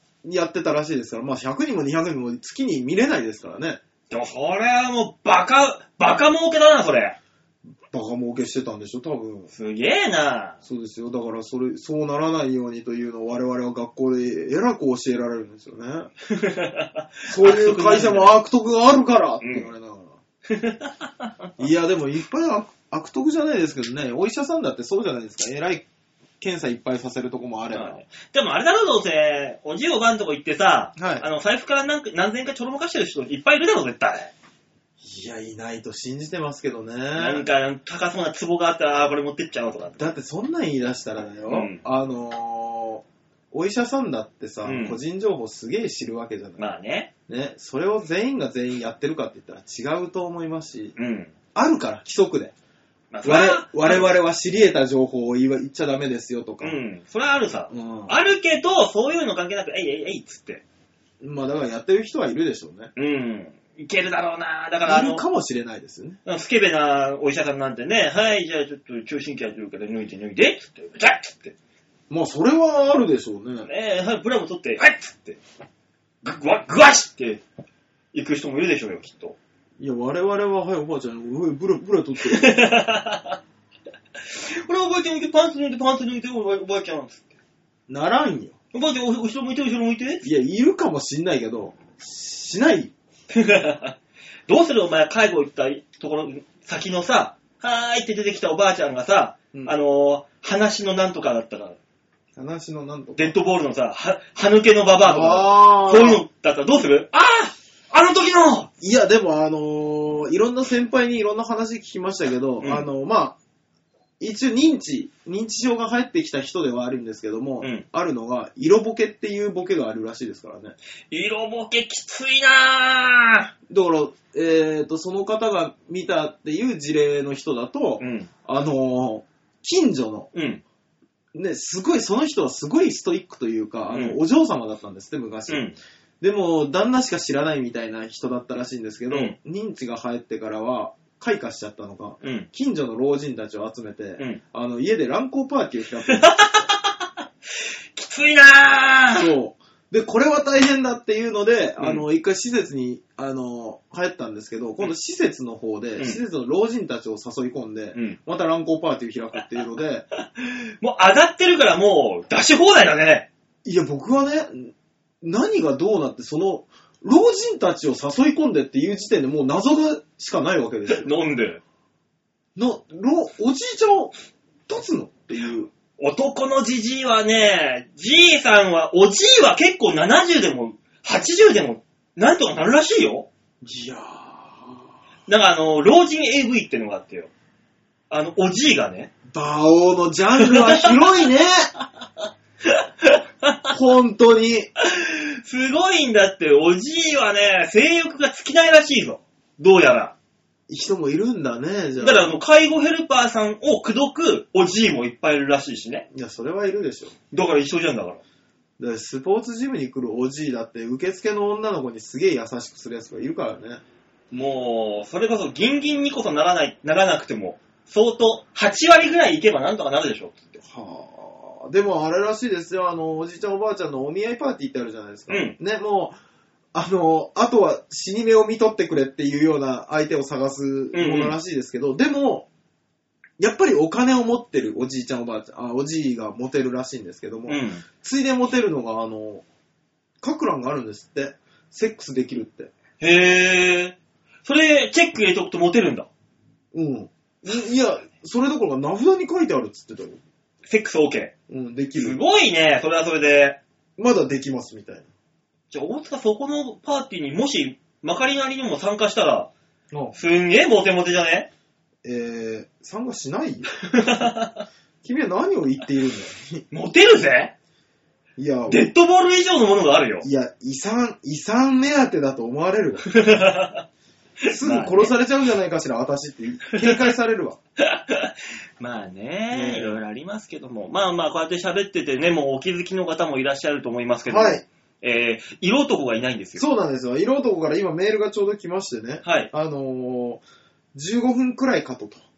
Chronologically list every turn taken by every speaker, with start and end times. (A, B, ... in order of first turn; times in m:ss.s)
0:00.2-0:03.8 A
0:04.1-0:07.2 B
0:07.9-0:09.5 A
0:09.5-0:10.6 B
0:10.6-0:16.1 A
0:16.3-0:18.4 B
0:17.3-0:20.2 A
0:19.4-0:19.7 B
0:20.5-0:21.3 B
0:21.6-0:25.9 A
0:26.4-0:28.0 A
0:27.7-0:34.3 B
0:31.0-0:31.2 A
0:35.0-0:37.4 A
0:37.2-0:40.1 B
0:40.0-0:46.6 A
0:41.5-0:41.8 B
0:44.6-0:45.0 B
0:46.6-0:47.1 B
0:47.3-0:50.9 A
0:51.0-0:51.3 B
0:51.6-0:52.5 A
0:53.1-0:54.1 B
0:53.2-0:56.8 A
0:56.6-1:00.6 B
0:57.7-0:58.1 A
1:01.2-1:02.9 A
1:03.0-1:05.2 B
1:04.8-1:06.2 A
1:06.2-1:11.6 B
1:12.1-1:13.7 A
1:13.7-1:15.4 B
1:16.2-1:17.4 B
1:18.1-1:19.4 B
1:19.8-1:22.6 A
1:22.2-1:23.4 B
1:24.3-1:27.4 B
1:27.9-1:28.6 A
1:28.7-1:30.3 B
1:30.2-1:32.9 A
1:33.3-1:33.9 B
1:34.5-1:41.8 B
1:42.4-1:43.4 A
1:43.2-1:48.7 B
1:45.0-1:46.2 A
1:48.8-1:53.4 A
1:52.6-1:52.9 B
1:54.2-2:00.8 A
2:01.1-2:03.5 B
2:03.7-2:10.3 A
2:08.0-2:08.3 B
2:10.3-2:10.6 B
2:11.3-2:15.6 A
2:13.9-2:14.2 B
2:15.5-2:15.8 B
2:16.2-2:26.3 A
2:26.1-2:27.0 B
2:27.9-2:29.3 B
2:29.1-2:40.1 A
2:31.8-2:32.0 B
2:40.2-2:43.3 B
2:43.6-2:51.1 A
2:50.9-2:51.6 B
2:52.6-2:54.1 A
2:54.7-2:55.7 A
2:56.0-3:03.3 B
3:03.6-3:04.9 A
3:05.3-3:07.3 B
3:08.1-3:09.1 B
3:09.3-3:11.7 A
3:10.4-3:11.2 B
3:12.6-3:13.7 B
3:13.7-3:14.7 A
3:14.8-3:20.1 B
3:20.7-3:22.3 A
3:22.0-3:26.0 B
3:26.1-3:27.2 A
3:27.3-3:28.2 B
3:28.8-3:33.8 A
3:34.3-3:40.6 B
3:40.6-3:46.2 A
3:45.3-3:45.6 B
3:46.7-3:52.5 A
3:50.9-3:51.3 B
3:53.4-3:59.4 A
3:57.5-3:57.8 B
4:00.2-4:02.7 A
4:03.0-4:06.1 B
4:06.7-4:10.2 A
4:10.7-4:11.3 B
4:11.5-4:12.2 A
4:12.0-4:13.6 B
4:14.0-4:15.1 A
4:15.7-4:19.5 B
4:20.1-4:21.5 B
4:22.0-4:24.2 A
4:23.9-4:24.6 B
4:25.0-4:26.6 A
4:26.7-4:27.5 B
4:28.4-4:28.9 A
4:28.7-4:30.3 B
4:30.2-4:33.1 A
4:33.1-4:33.8 B
4:34.4-4:35.1 B
4:34.5-4:37.6 A
4:36.7-4:37.1 B
4:37.8-4:46.6 B
4:39.5-4:40.0 A
4:44.3-4:44.6 A
4:46.6-4:50.4 A
4:49.2-4:49.5 B
4:50.9-4:52.2 A